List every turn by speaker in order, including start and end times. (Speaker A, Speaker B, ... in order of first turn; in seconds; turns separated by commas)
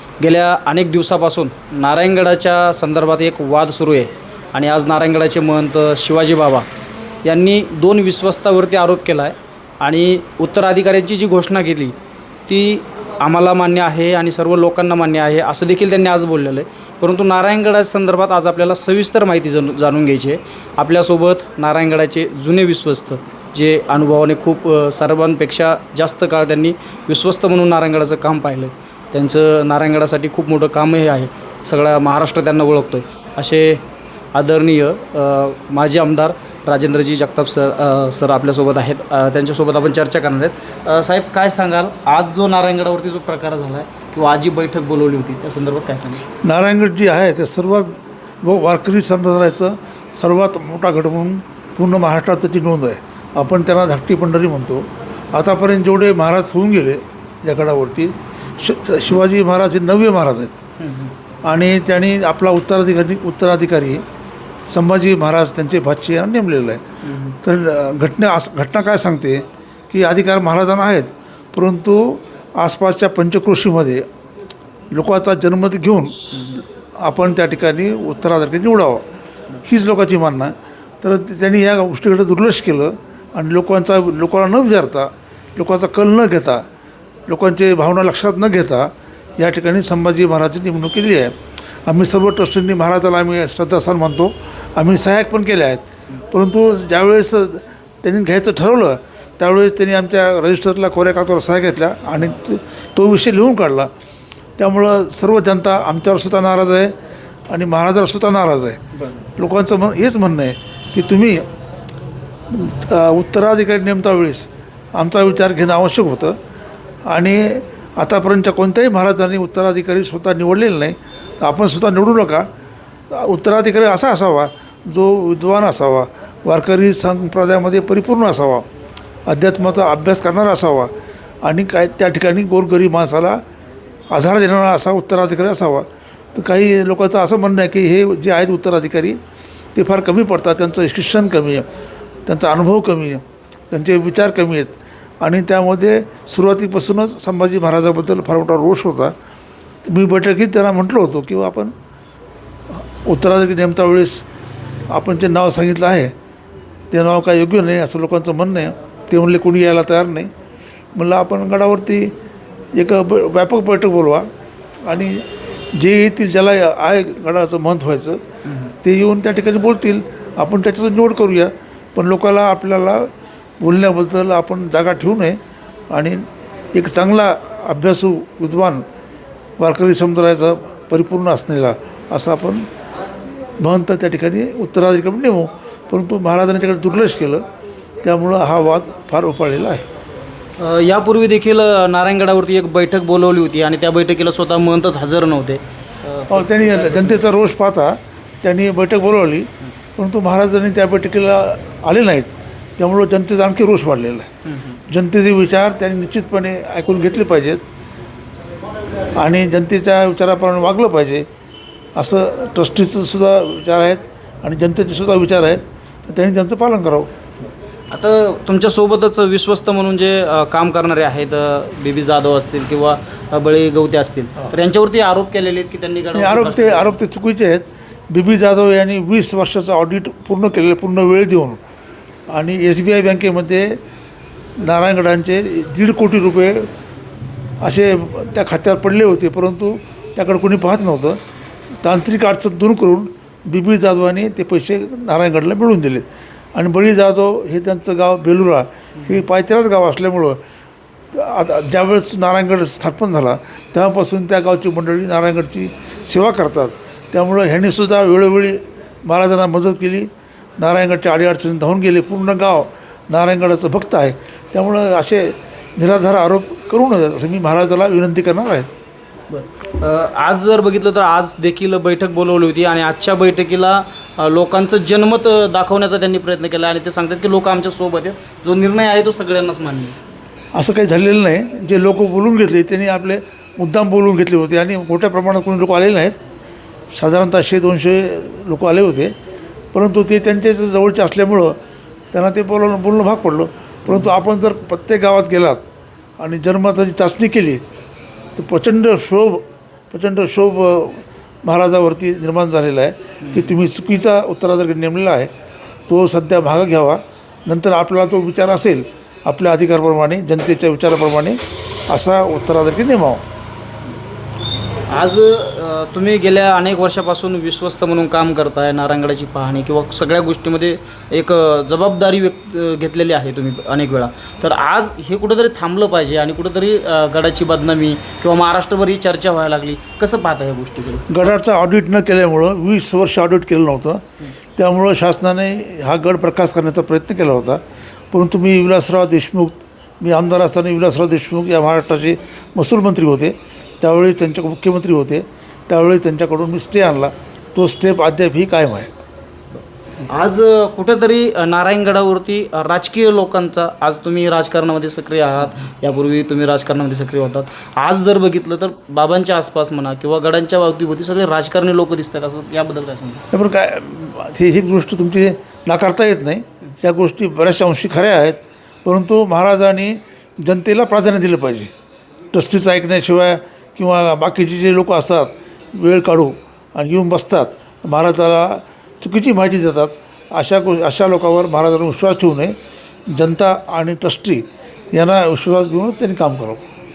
Speaker A: 0.2-6.7, Speaker A: 7.2-11.9, Speaker A: 12.5-33.8, Speaker A: 34.3-46.2, Speaker B: 46.4-60.6, Speaker A: 60.8-61.1, Speaker B: 61.5-64.0, Speaker B: 64.7-66.8, Speaker A: 67.0-67.4, Speaker B: 67.4-74.0, Speaker B: 74.9-79.0, Speaker A: 76.3-76.6, Speaker B: 79.6-86.7, Speaker B: 87.3-91.4, Speaker B: 91.9-103.9, Speaker B: 104.6-106.9, Speaker B: 107.5-108.8, Speaker B: 109.4-111.5, Speaker B: 112.5-116.4, Speaker B: 117.1-122.5, Speaker B: 123.1-128.7, Speaker B: 129.3-130.9, Speaker B: 131.4-133.4, Speaker B: 134.1-139.2, Speaker B: 139.8-141.7, Speaker B: 142.3-149.2, Speaker B: 149.8-151.7, Speaker B: 152.7-154.2, Speaker B: 154.9-156.1, Speaker B: 156.9-160.3, Speaker B: 160.9-162.1, Speaker B: 162.8-164.3, Speaker B: 164.8-168.2, Speaker A: 168.5-168.7, Speaker B: 168.8-173.1, Speaker B: 173.6-175.4, Speaker B: 175.9-178.8, Speaker B: 179.6-182.7, Speaker B: 183.6-187.4, Speaker B: 188.0-189.8, Speaker A: 190.6-197.2, Speaker B: 196.3-204.3, Speaker A: 204.4-204.8, Speaker B: 204.9-207.6, Speaker B: 209.2-211.3, Speaker B: 211.9-217.1, Speaker A: 217.9-226.9, Speaker B: 226.1-231.6, Speaker B: 232.3-233.8, Speaker B: 234.6-236.7, Speaker B: 237.6-241.2, Speaker B: 241.8-250.4, Speaker B: 251.1-268.7, Speaker A: 269.3-280.0, Speaker B: 280.5-286.2, Speaker B: 286.9-289.1, Speaker B: 289.7-291.6, Speaker B: 292.1-295.6, Speaker B: 296.2-297.6, Speaker B: 298.4-305.3, Speaker A: 303.2-303.5, Speaker B: 305.9-311.4, Speaker B: 311.9-313.2, Speaker A: 314.9-331.2, Speaker B: 331.1-334.0, Speaker B: 334.6-337.6, Speaker B: 338.1-348.9, Speaker A: 350.1-363.2, Speaker B: 363.3-371.7, Speaker B: 372.3-382.6, Speaker B: 383.1-386.6